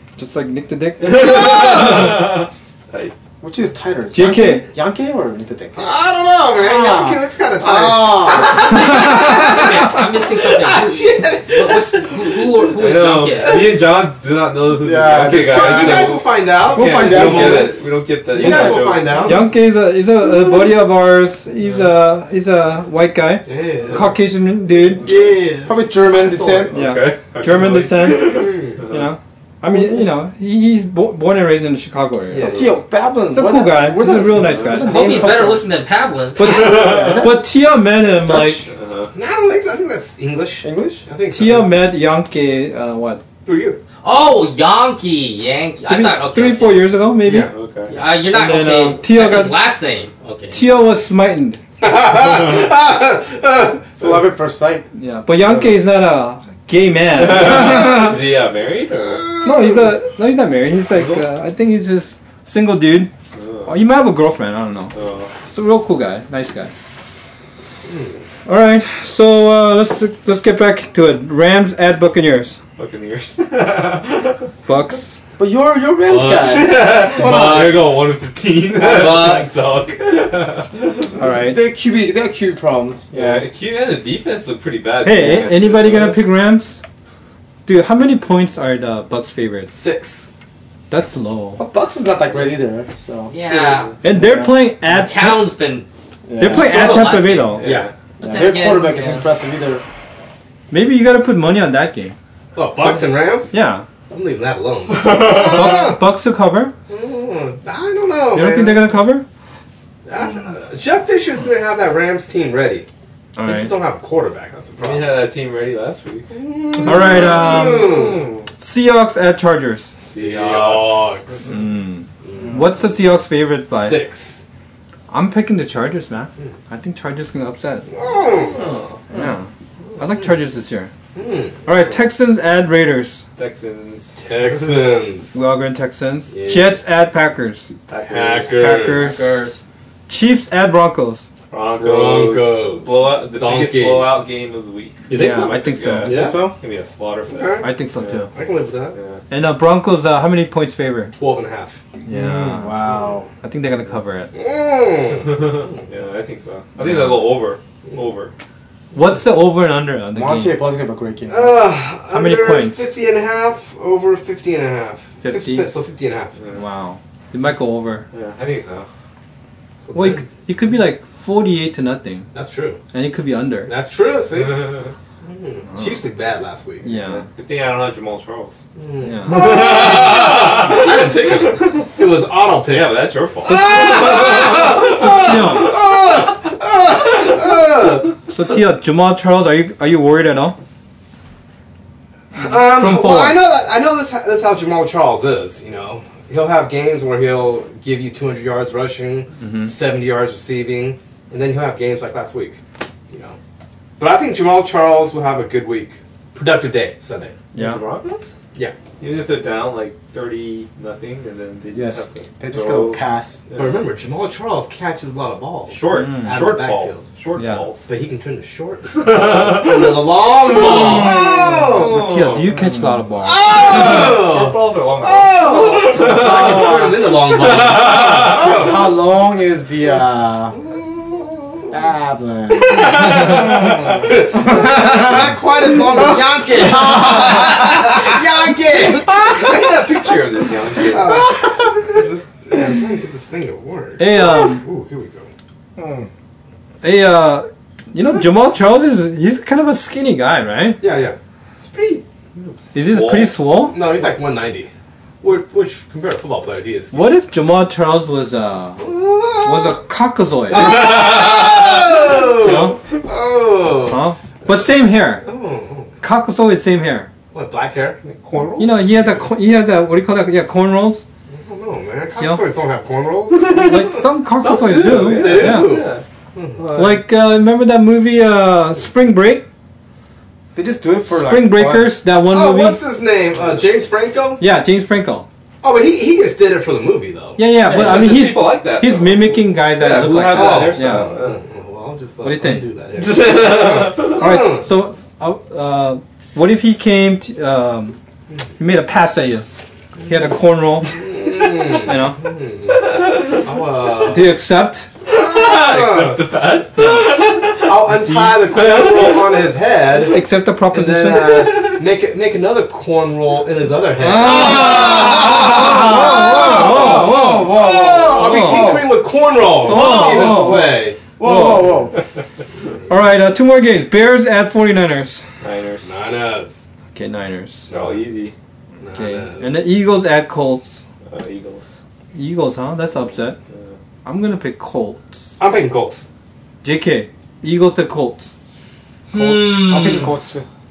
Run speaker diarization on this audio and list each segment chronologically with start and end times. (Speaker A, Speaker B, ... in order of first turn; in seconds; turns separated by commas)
Speaker A: 0.2-1.8, Speaker B: 1.0-3.1, Speaker C: 3.4-5.9, Speaker A: 4.1-4.7, Speaker D: 5.8-12.4, Speaker C: 6.5-8.9, Speaker A: 8.7-9.7, Speaker E: 9.1-13.7, Speaker B: 12.7-19.4, Speaker C: 14.8-16.2, Speaker D: 15.1-19.5, Speaker C: 16.7-17.8, Speaker C: 18.4-19.1, Speaker A: 19.2-25.1, Speaker B: 21.6-21.9, Speaker D: 23.4-24.2, Speaker B: 23.9-24.1, Speaker B: 24.7-25.4, Speaker D: 25.0-25.9, Speaker C: 25.6-26.8, Speaker B: 26.0-29.1, Speaker A: 26.7-32.6, Speaker D: 28.3-28.8, Speaker C: 29.7-30.0, Speaker D: 32.3-32.6, Speaker B: 32.3-32.7, Speaker C: 32.3-35.6, Speaker A: 33.3-35.3, Speaker B: 34.4-34.7, Speaker E: 34.8-36.7, Speaker A: 36.3-38.7, Speaker C: 36.4-37.4, Speaker B: 38.6-39.1, Speaker D: 39.1-41.8, Speaker C: 40.6-41.0, Speaker A: 41.3-43.2, Speaker D: 43.4-43.8, Speaker E: 44.0-46.9, Speaker A: 45.8-47.5, Speaker D: 47.2-47.5, Speaker B: 47.5-48.0, Speaker E: 47.9-50.6, Speaker A: 48.3-49.6, Speaker A: 50.5-51.6, Speaker D: 51.8-54.2, Speaker C: 53.9-54.9, Speaker A: 54.9-58.2, Speaker B: 55.4-55.8, Speaker B: 57.1-59.3, Speaker D: 59.0-59.9, Speaker A: 59.4-63.1, Speaker B: 60.9-61.3, Speaker B: 63.3-63.8, Speaker A: 63.6-64.9, Speaker B: 64.9-65.3, Speaker A: 65.5-66.7, Speaker D: 67.8-68.2, Speaker A: 68.5-72.6, Speaker B: 72.8-74.5, Speaker A: 74.7-75.2, Speaker C: 75.4-77.7, Speaker D: 76.0-78.1, Speaker B: 76.3-81.1, Speaker D: 78.8-79.9, Speaker A: 81.2-81.6, Speaker C: 81.2-83.4, Speaker B: 83.1-86.2, Speaker A: 85.0-86.8, Speaker A: 87.7-89.7, Speaker D: 89.7-90.3, Speaker A: 90.9-91.6, Speaker C: 91.6-93.3, Speaker E: 93.3-93.9, Speaker B: 93.4-93.9, Speaker C: 94.0-94.6, Speaker A: 94.0-95.5, Speaker E: 94.9-95.9, Speaker C: 96.3-96.9, Speaker A: 96.4-97.8, Speaker E: 96.4-97.6, Speaker B: 97.5-97.9, Speaker D: 97.6-97.9, Speaker C: 98.2-99.8, Speaker E: 98.2-99.2, Speaker A: 100.7-102.1, Speaker D: 102.5-103.6, Speaker A: 103.5-103.9, Speaker D: 104.1-106.0, Speaker B: 105.2-105.5, Speaker A: 105.3-106.7, Speaker D: 106.9-109.0, Speaker A: 108.3-109.2, Speaker D: 110.1-112.9, Speaker A: 113.3-113.7, Speaker D: 113.4-115.2, Speaker B: 114.8-116.3, Speaker D: 116.3-118.3, Speaker A: 116.8-118.0, Speaker B: 116.8-118.5, Speaker A: 118.6-119.9, Speaker B: 120.0-121.5, Speaker D: 120.0-121.7, Speaker A: 121.5-124.0, Speaker D: 122.2-122.7, Speaker D: 123.7-124.4, Speaker A: 125.1-127.9, Speaker D: 127.9-128.7, Speaker B: 128.3-129.1, Speaker A: 129.1-130.9, Speaker D: 131.1-131.7, Speaker A: 131.6-133.2, Speaker B: 133.4-134.2, Speaker D: 134.2-135.3, Speaker A: 135.3-137.7, Speaker D: 136.3-136.8, Speaker B: 137.9-139.0, Speaker D: 138.0-139.2, Speaker A: 138.5-139.3, Speaker E: 138.9-139.6, Speaker A: 140.1-141.2, Speaker B: 141.5-148.3, Speaker D: 141.8-144.2, Speaker A: 145.1-146.3, Speaker D: 146.1-146.4, Speaker C: 146.1-146.5, Speaker D: 147.3-147.7, Speaker A: 147.6-148.3, Speaker D: 148.3-148.9, Speaker B: 148.9-149.2, Speaker A: 149.3-151.1, Speaker D: 151.1-151.8, Speaker A: 152.1-152.8, Speaker C: 152.1-153.3, Speaker A: 153.4-154.3, Speaker D: 154.3-155.8, Speaker B: 155.2-158.3, Speaker A: 156.8-157.2, Speaker A: 158.9-160.6, Speaker C: 160.1-161.6, Speaker D: 161.3-166.4, Speaker A: 162.1-162.9, Speaker A: 165.2-165.7, Speaker B: 166.4-166.6, Speaker A: 166.5-168.1, Speaker B: 168.1-168.9, Speaker D: 169.8-170.3, Speaker A: 169.9-172.3, Speaker D: 172.3-172.8, Speaker A: 172.9-173.7, Speaker D: 173.7-176.9, Speaker B: 174.4-174.9, Speaker A: 176.8-177.2, Speaker B: 176.8-178.6, Speaker D: 178.8-188.2, Speaker A: 179.0-179.8, Speaker B: 179.3-181.9, Speaker B: 182.7-185.3, Speaker A: 183.4-185.8, Speaker A: 188.3-190.6, Speaker A: 192.3-193.4, Speaker D: 192.3-203.4, Speaker A: 199.4-199.7, Speaker D: 204.0-207.4, Speaker A: 207.5-207.8, Speaker B: 207.5-208.3, Speaker B: 209.0-213.8, Speaker C: 211.7-213.4, Speaker D: 213.5-217.1, Speaker B: 215.7-217.9, Speaker A: 215.9-216.6, Speaker A: 217.3-217.7, Speaker D: 217.9-222.0, Speaker B: 218.9-219.9, Speaker C: 220.6-221.7, Speaker B: 221.7-222.5, Speaker A: 221.9-224.0, Speaker C: 222.5-223.0, Speaker D: 223.2-228.8, Speaker B: 223.5-226.7, Speaker C: 225.5-230.6, Speaker D: 230.5-231.8, Speaker C: 231.7-238.2, Speaker B: 232.7-233.8, Speaker D: 232.9-239.7, Speaker B: 238.9-241.2, Speaker D: 240.9-245.3, Speaker A: 244.0-244.6, Speaker C: 245.8-246.1, Speaker A: 246.8-250.8, Speaker D: 250.8-251.2, Speaker B: 251.6-253.5, Speaker A: 252.7-253.8, Speaker D: 253.7-254.7, Speaker D: 255.2-257.1, Speaker A: 256.9-258.8, Speaker D: 258.8-259.8, Speaker A: 259.4-260.9, Speaker D: 260.5-264.0, Speaker A: 262.3-262.8, Speaker A: 263.8-265.3, Speaker D: 265.2-266.0, Speaker A: 266.0-267.1, Speaker D: 267.3-268.0, Speaker B: 268.0-269.2, Speaker A: 268.6-271.0, Speaker D: 271.3-273.9, Speaker A: 272.2-272.4, Speaker B: 273.3-276.0, Speaker A: 273.5-275.8, Speaker D: 274.8-276.7, Speaker B: 276.6-277.0, Speaker A: 276.7-279.4, Speaker C: 280.5-282.0, Speaker A: 281.1-282.8, Speaker D: 282.2-284.4, Speaker A: 284.4-285.3, Speaker D: 285.6-287.4, Speaker A: 287.4-291.1, Speaker C: 287.6-288.1, Speaker B: 287.6-291.4, Speaker D: 290.3-294.7, Speaker A: 292.2-292.7, Speaker B: 293.0-294.3, Speaker A: 294.1-298.0, Speaker A: 298.6-299.4, Speaker A: 300.0-301.1, Speaker D: 300.9-304.4, Speaker A: 301.8-302.2, Speaker B: 302.7-303.5, Speaker A: 304.1-304.9, Speaker B: 305.1-309.4, Speaker D: 305.1-306.2, Speaker D: 307.6-321.1, Speaker A: 310.1-311.7, Speaker B: 311.2-311.8, Speaker A: 313.9-317.5, Speaker C: 314.6-318.9, Speaker A: 318.2-318.8, Speaker A: 319.6-320.7, Speaker C: 319.7-321.9, Speaker A: 321.2-321.8, Speaker A: 322.9-325.2, Speaker B: 325.4-325.9, Speaker D: 325.8-326.5, Speaker A: 326.9-327.7, Speaker B: 327.7-328.3, Speaker D: 328.8-329.7, Speaker A: 328.9-330.8, Speaker B: 331.1-331.8, Speaker A: 332.1-333.4, Speaker B: 333.5-333.8, Speaker A: 334.0-335.4, Speaker D: 335.4-336.1, Speaker A: 336.6-338.3, Speaker E: 339.1-340.2, Speaker C: 339.1-340.4